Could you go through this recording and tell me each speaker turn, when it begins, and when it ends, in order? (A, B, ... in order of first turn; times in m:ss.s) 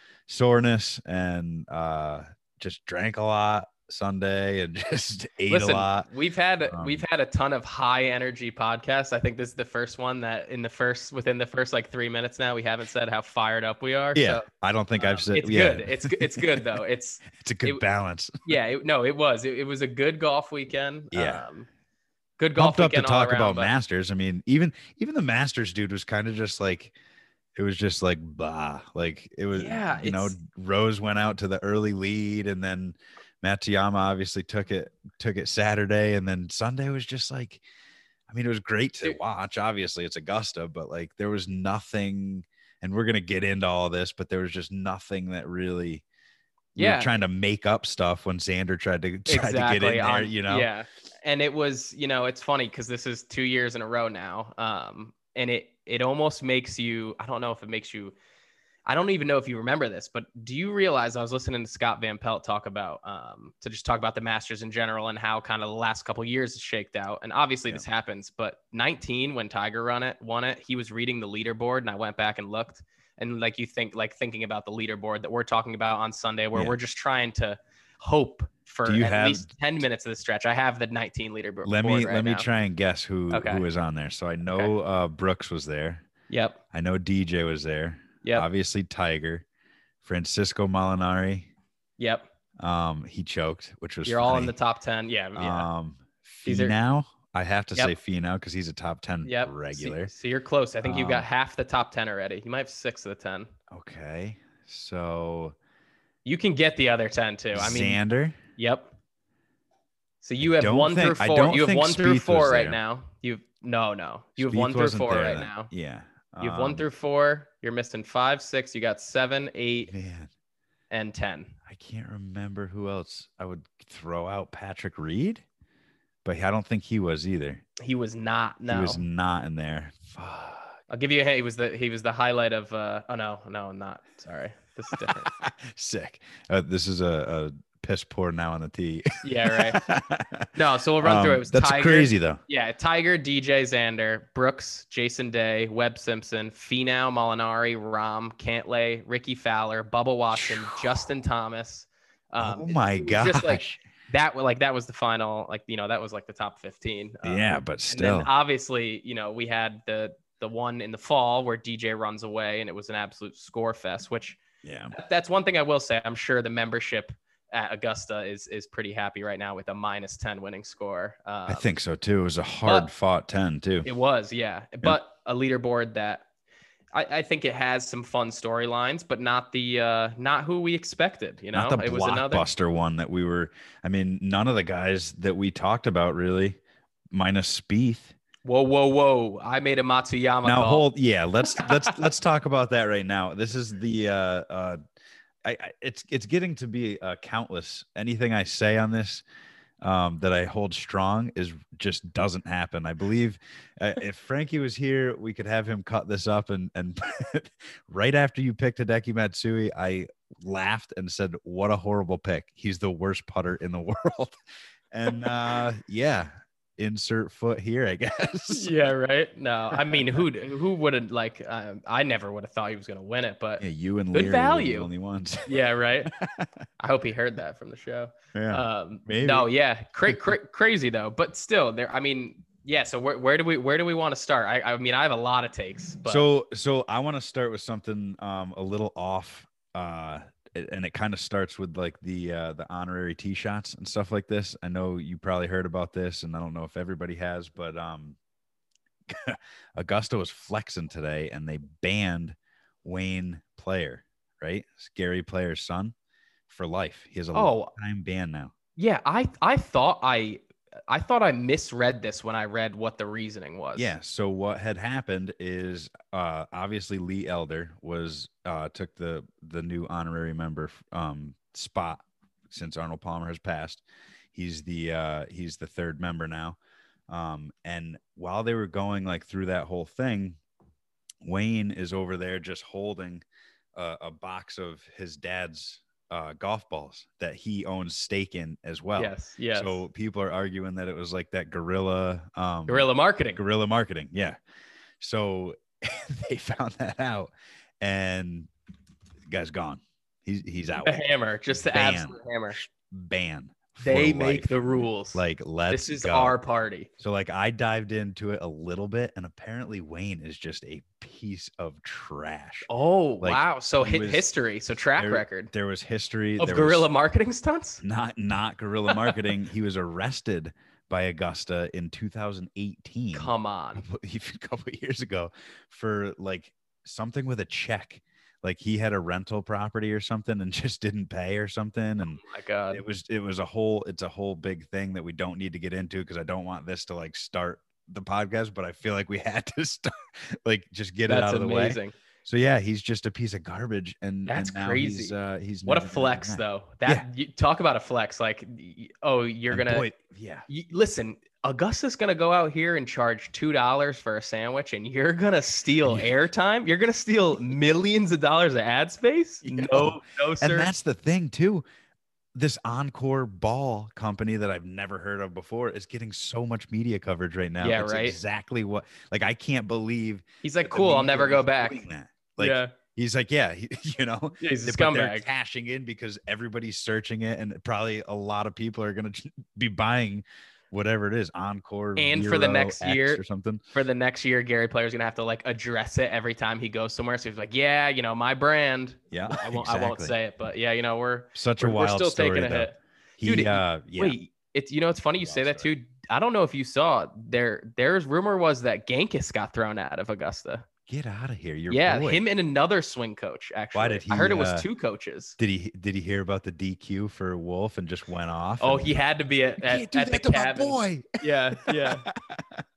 0:00.3-0:06.1 A
0:05.5-0:14.4 B
0:06.7-0:07.0 A
0:14.1-0:18.5 A
0:15.0-0:17.8 B
0:18.4-0:21.7 B
0:21.1-0:21.4 A
0:22.4-0:23.7 B
0:22.6-0:26.9 A
0:27.5-0:37.6 A
0:29.5-0:30.4 B
0:38.3-0:46.0 A
0:46.7-0:50.7 A
0:46.8-0:47.1 B
0:49.3-0:58.1 B
0:58.8-1:22.5 B
1:18.8-1:19.5 A
1:21.6-1:26.0 A
1:23.3-1:23.6 B
1:26.3-1:26.6 B
1:26.7-1:29.4 A
1:30.0-1:31.5 A
1:32.0-1:32.3 B
1:32.6-1:34.5 A
1:34.0-1:35.7 B
1:35.4-1:40.1 A
1:36.4-1:36.7 B
1:39.2-1:43.5 B
1:40.8-1:41.2 A
1:43.7-1:45.6 A
1:46.2-1:48.0 B
1:47.5-1:48.4 A
1:48.6-1:48.9 B
1:50.2-1:55.7 B
1:50.4-1:52.8 A
1:54.4-1:56.8 A
1:56.4-1:59.9 B
1:59.9-2:00.3 A
2:00.9-2:01.5 B
2:01.7-2:05.4 A
2:06.2-2:07.6 A
2:07.8-2:09.0 B
2:08.7-2:10.7 A
2:10.9-2:15.3 B
2:14.9-2:20.5 A
2:19.2-2:19.8 B
2:20.5-2:44.4 B
2:21.0-2:22.4 A
2:30.3-2:30.8 A
2:32.4-2:33.8 A
2:37.2-2:38.3 A
2:44.6-2:44.9 A
2:44.9-2:51.7 B
2:51.5-2:53.9 A
2:53.8-2:56.2 B
2:56.9-3:02.4 B
3:01.5-3:06.6 A
3:07.1-3:08.1 A
3:08.4-3:10.8 B
3:10.4-3:14.8 A
3:11.4-3:11.9 B
3:15.4-3:19.2 A
3:19.8-3:34.4 A
3:34.9-3:38.7 A
3:38.5-3:44.9 B
3:43.6-3:45.5 A
3:45.4-3:46.1 B
3:46.0-3:46.5 A
3:46.8-3:56.3 B
3:48.3-3:49.5 A
3:56.0-4:08.2 A
4:09.1-4:15.9 A
4:16.5-4:18.5 A
4:17.3-4:17.7 B
4:18.8-4:23.9 B
4:23.8-4:36.6 A
4:37.1-4:40.4 A
4:41.2-4:54.4 A
4:49.0-4:49.8 B
4:52.7-4:53.4 B
4:55.0-4:58.5 A
4:59.3-5:01.0 A
5:00.8-5:02.6 B
5:01.7-5:06.4 A
5:03.8-5:06.9 B
5:07.0-5:12.7 A
5:12.7-5:15.5 B
5:13.2-5:14.3 A
5:15.0-5:16.9 A
5:16.4-5:17.8 B
5:17.8-5:47.0 A
5:18.9-5:19.2 B
5:23.1-5:23.8 B
5:32.2-5:32.8 B
5:41.1-5:41.9 B
5:44.3-5:45.1 B
5:45.6-5:49.9 B
5:49.5-5:50.4 A
5:50.5-6:00.7 B
5:59.4-6:01.6 A
6:02.3-6:23.6 A
6:07.6-6:08.2 B
6:10.4-6:11.8 B
6:12.4-6:12.7 B
6:14.4-6:15.2 B
6:22.0-6:40.6 B
6:29.1-6:30.2 A
6:31.3-6:34.2 A
6:35.2-6:35.7 A
6:40.9-6:42.2 A
6:41.7-6:45.4 B
6:43.7-6:44.7 A
6:45.4-6:48.9 A
6:48.6-6:52.1 B
6:49.6-6:52.6 A